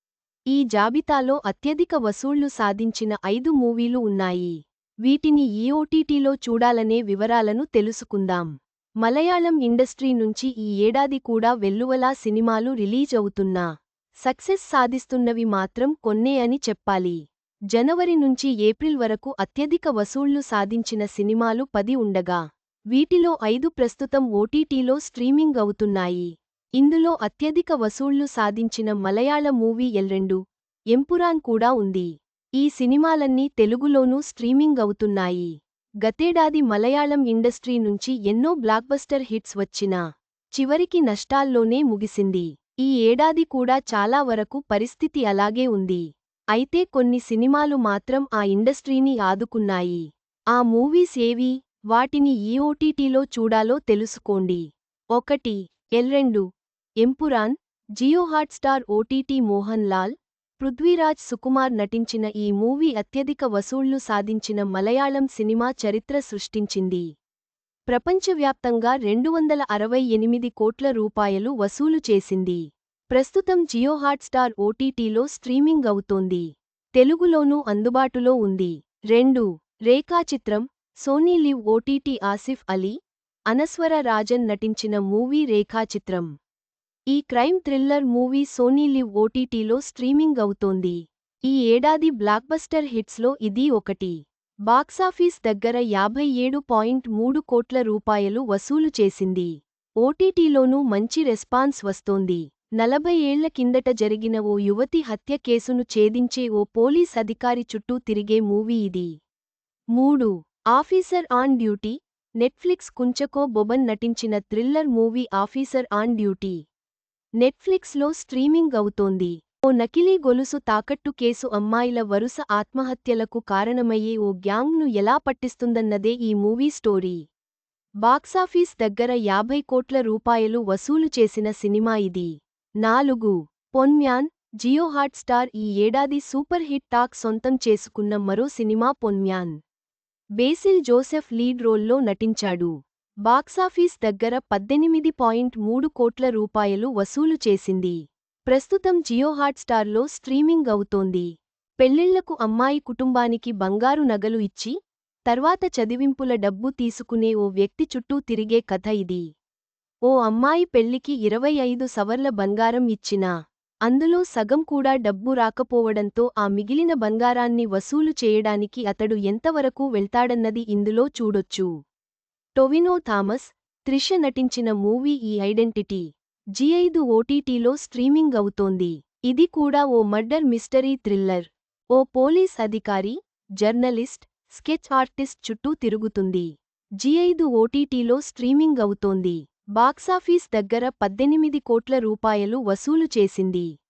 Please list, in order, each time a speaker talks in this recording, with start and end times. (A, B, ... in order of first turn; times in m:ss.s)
0:00.5-0:04.5 A
0:05.1-0:08.5 A
0:09.0-0:13.6 A
0:14.2-0:17.2 A
0:17.7-0:22.4 A
0:22.9-0:26.3 A
0:26.8-0:30.4 A
0:30.9-0:32.1 A
0:32.6-0:35.5 A
0:36.0-0:40.0 A
0:40.6-0:46.0 A
0:46.6-0:50.0 A
0:50.6-0:54.6 A
0:55.2-0:56.4 A
0:57.0-1:07.0 A
1:07.9-1:12.6 A
1:13.1-1:16.4 A
1:17.0-1:23.0 A
1:23.5-1:26.3 A
1:27.1-1:34.2 A
1:34.7-1:39.5 A
1:40.0-1:49.1 A
1:50.0-1:56.6 A
1:57.4-2:07.2 A
2:08.0-2:12.3 A
2:12.8-2:19.6 A
2:20.4-2:22.7 A
2:23.3-2:28.0 A
2:28.5-2:31.3 A
2:31.8-2:34.7 A
2:35.3-2:39.2 A
2:40.1-2:43.3 A
2:43.9-2:51.7 A
2:52.6-2:56.0 A
2:56.6-3:06.5 A
3:07.0-3:13.7 A